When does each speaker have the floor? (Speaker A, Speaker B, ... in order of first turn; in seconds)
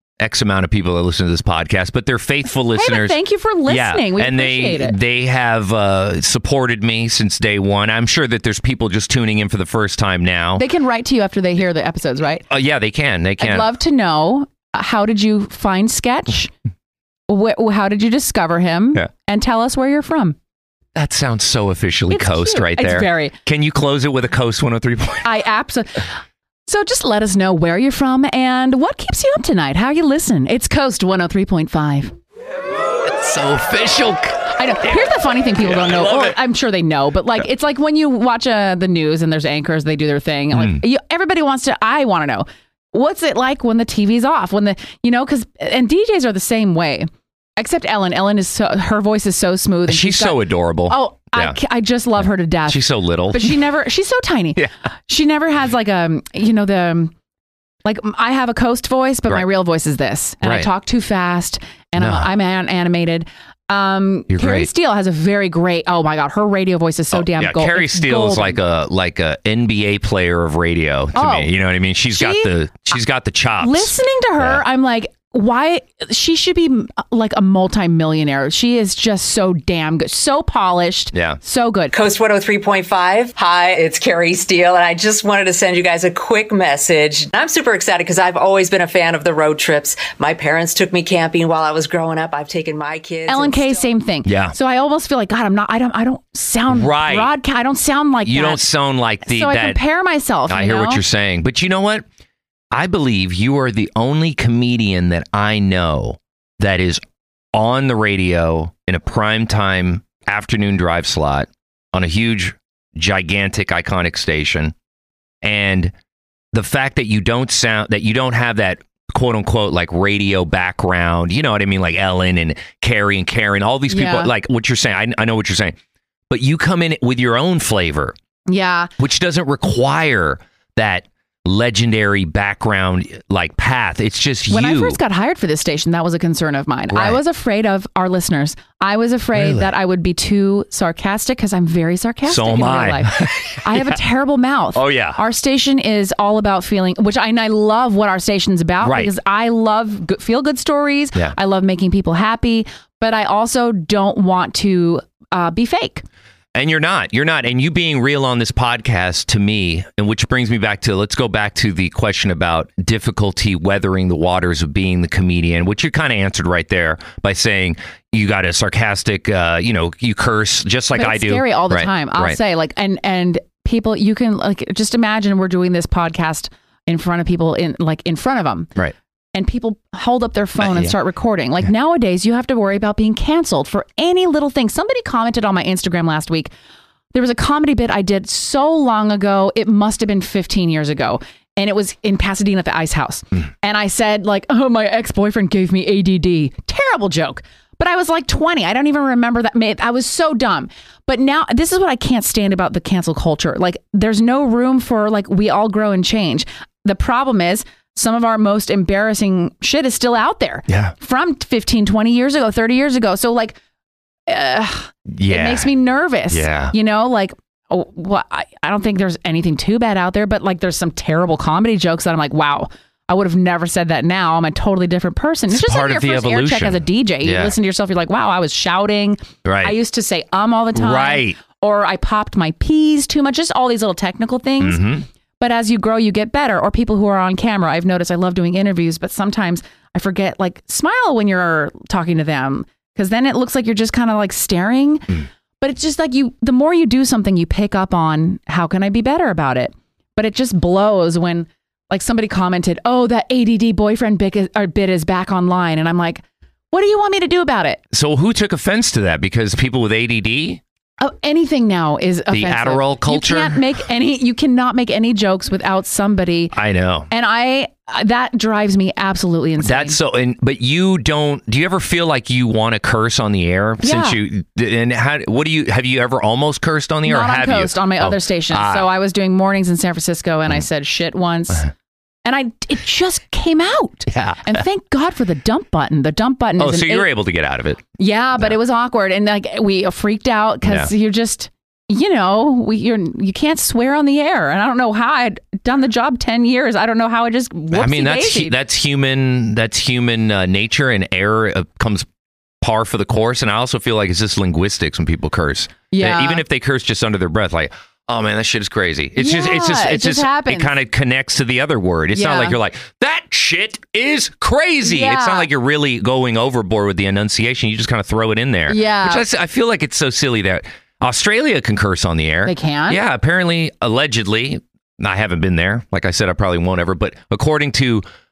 Speaker A: 0.2-10.6, 12.5-13.7, 20.9-25.3, 33.0-35.0, 35.6-36.4, 40.5-40.8, 49.9-51.6, 52.7-53.6, 60.4-60.7, 62.0-62.3, 64.3-64.7, 67.1-74.6, 81.1-81.4, 94.2-94.5, 96.7-97.3, 98.2-99.8, 100.5-102.0, 102.7-107.0, 107.5-114.7, 115.4-115.9, 116.5-125.8, 126.3-128.2, 129.0-135.0, 136.9-137.2, 139.3-139.7, 142.3-144.0, 144.7-145.2, 148.8-149.1, 156.5-172.4, 180.6-180.9, 210.7-210.9, 215.1-215.7, 216.3-216.7, 225.5-227.5, 229.4-229.8, 230.8-231.4, 234.6-235.1, 257.9-260.6, 262.3-263.6, 266.5-267.1, 269.6-278.9, 284.1-284.6, 286.6-287.8, 290.6-290.9, 297.7-302.1, 302.6-328.0
Speaker B: 2.8-5.0, 10.6-12.5, 13.4-16.5, 17.3-20.4, 22.1-23.3, 25.2-26.1, 26.7-32.1, 34.6-57.1, 57.9-68.6, 71.2-71.5, 72.2-72.5, 73.6-82.0, 93.3-98.6, 99.2-101.0, 123.9-124.3, 128.5-128.9, 134.5-156.0, 170.9-178.7, 179.3-186.5, 187.1-213.6, 214.3-234.8, 235.4-257.8, 261.0-266.5, 267.1-270.0, 273.8-274.2, 277.1-281.7, 282.2-287.1, 288.0-298.6, 305.9-306.4, 309.2-310.7, 312.1-312.6, 314.8-315.5, 318.7-319.2, 322.4-323.0
Speaker C: 81.9-93.9